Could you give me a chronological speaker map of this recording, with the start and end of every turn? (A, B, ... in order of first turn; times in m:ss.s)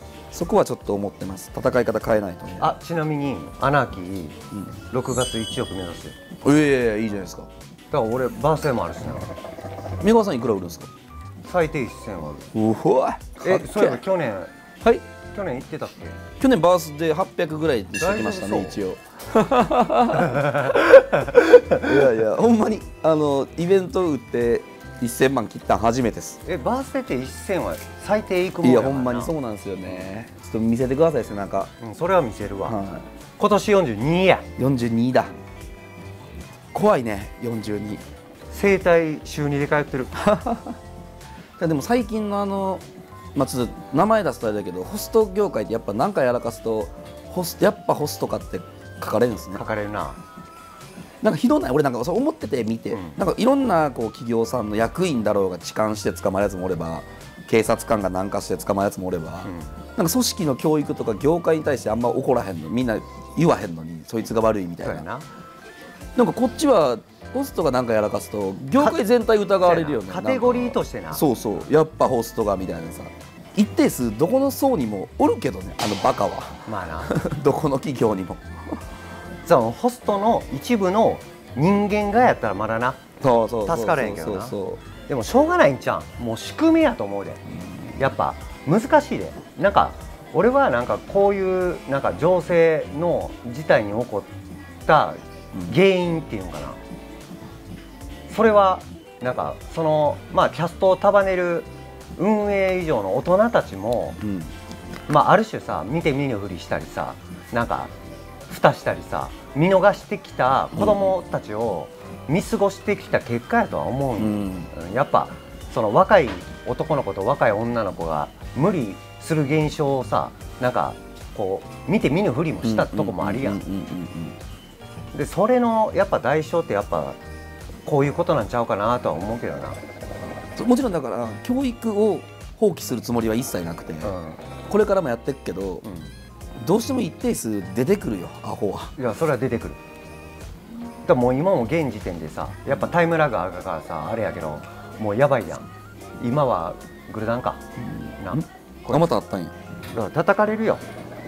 0:00.3-0:02.7 A
0:02.6-0:06.2 B
0:06.4-0:07.5 A
0:07.9-0:09.3 B
0:10.0-0:10.9 A
0:11.4-0:12.5 B
0:12.5-0:14.0 A
0:13.4-0:14.5 B
0:15.3-0:16.2 B
0:16.4-0:26.4 A
0:18.0-0:18.8 B
0:20.2-0:20.8 B
0:26.4-0:29.3 B
0:28.6-0:31.7 A
0:31.8-0:32.8 B
0:32.6-0:33.1 A
0:33.4-0:34.5 B
0:34.6-0:35.4 A
0:36.7-0:38.0 A
0:38.5-0:40.1 B
0:40.1-0:40.8 A
0:41.6-0:42.8 A
0:43.3-0:49.6 A
0:49.6-0:50.2 B
0:51.2-1:05.1 A
0:52.9-0:53.2 B
1:04.8-1:05.2 B
1:06.2-1:18.8 A
1:08.8-1:09.0 B
1:09.6-1:11.2 B
1:16.7-1:17.1 B
1:19.4-1:23.0 B
1:23.2-1:24.8 A
1:23.6-1:24.5 B
1:25.1-1:27.4 B
1:28.0-1:34.3 B
1:34.8-1:36.8 B
1:38.3-1:44.2 B
1:44.2-1:44.5 A
1:45.1-1:47.9 B
1:48.5-2:03.6 B
1:50.7-1:51.1 A
1:54.2-1:54.7 A
2:02.6-2:04.4 A
2:05.1-2:07.2 B
2:07.8-2:09.8 B
2:10.6-2:14.2 A
2:14.0-2:14.4 B
2:14.7-2:15.8 A
2:15.8-2:16.1 B
2:16.6-2:19.0 A
2:19.0-2:19.8 B
2:21.0-2:27.6 B
2:27.8-2:29.5 A
2:28.2-2:29.1 B
2:29.9-2:30.8 B